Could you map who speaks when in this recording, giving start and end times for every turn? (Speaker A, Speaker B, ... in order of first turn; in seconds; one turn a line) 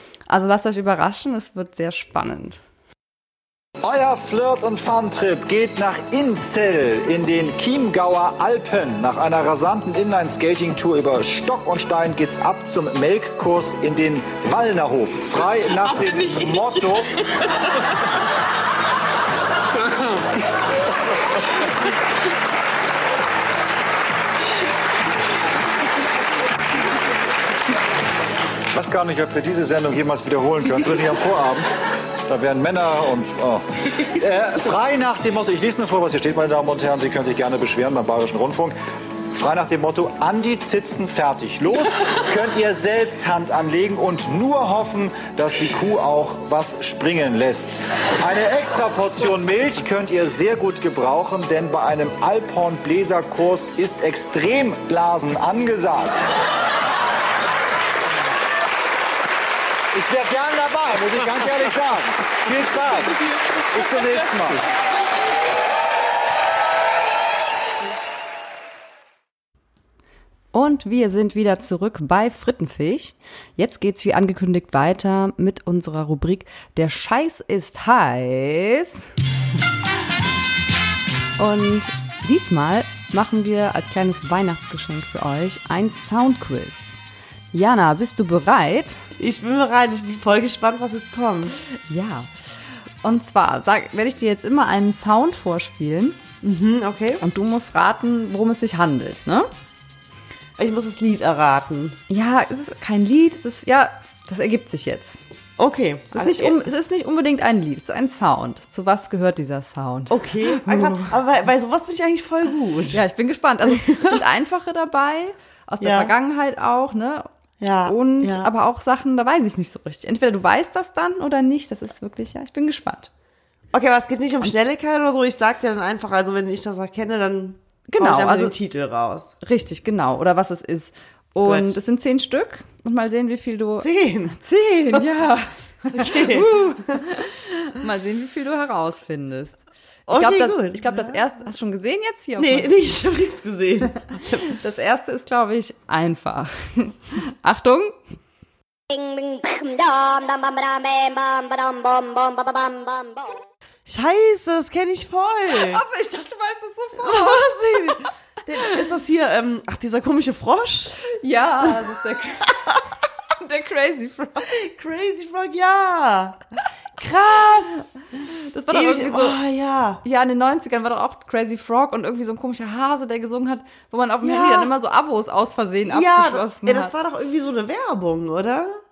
Speaker A: 0.3-2.6
Speaker B: 3.8-17.2
Speaker B: 28.7-31.7
Speaker B: 32.2-38.7
Speaker B: 39.3-56.3
Speaker B: 59.9-64.7
Speaker A: 70.5-79.0
Speaker A: 81.4-87.0
Speaker A: 87.5-89.0
Speaker C: 89.2-91.6
Speaker A: 91.9-92.3
Speaker A: 93.0-96.2
Speaker C: 96.4-97.2
Speaker A: 97.2-99.5
Speaker C: 100.6-102.0
Speaker A: 102.1-105.2
Speaker C: 105.6-106.6
Speaker A: 106.1-111.1
Speaker C: 110.1-113.0
Speaker A: 112.9-117.3
Speaker C: 113.7-114.2
Speaker C: 115.8-116.1
Speaker C: 117.6-118.5
Speaker A: 117.8-123.1
Speaker C: 123.7-129.3
Speaker A: 127.9-128.6
Speaker A: 129.4-142.7
Speaker C: 131.4-131.8
Speaker C: 133.8-134.4
Speaker C: 135.9-137.0
Speaker C: 140.1-141.2
Speaker C: 142.4-144.4
Speaker A: 144.3-148.0
Speaker D: 148.9-153.4
Speaker C: 153.9-155.8
Speaker A: 155.5-158.0
Speaker C: 157.0-161.0
Speaker A: 161.0-162.6
Speaker A: 163.4-164.5
Speaker C: 164.4-166.4
Speaker C: 167.0-167.9
Speaker A: 168.5-169.4
Speaker C: 168.7-170.0
Speaker A: 170.0-176.9
Speaker C: 174.2-174.7
Speaker C: 175.9-178.8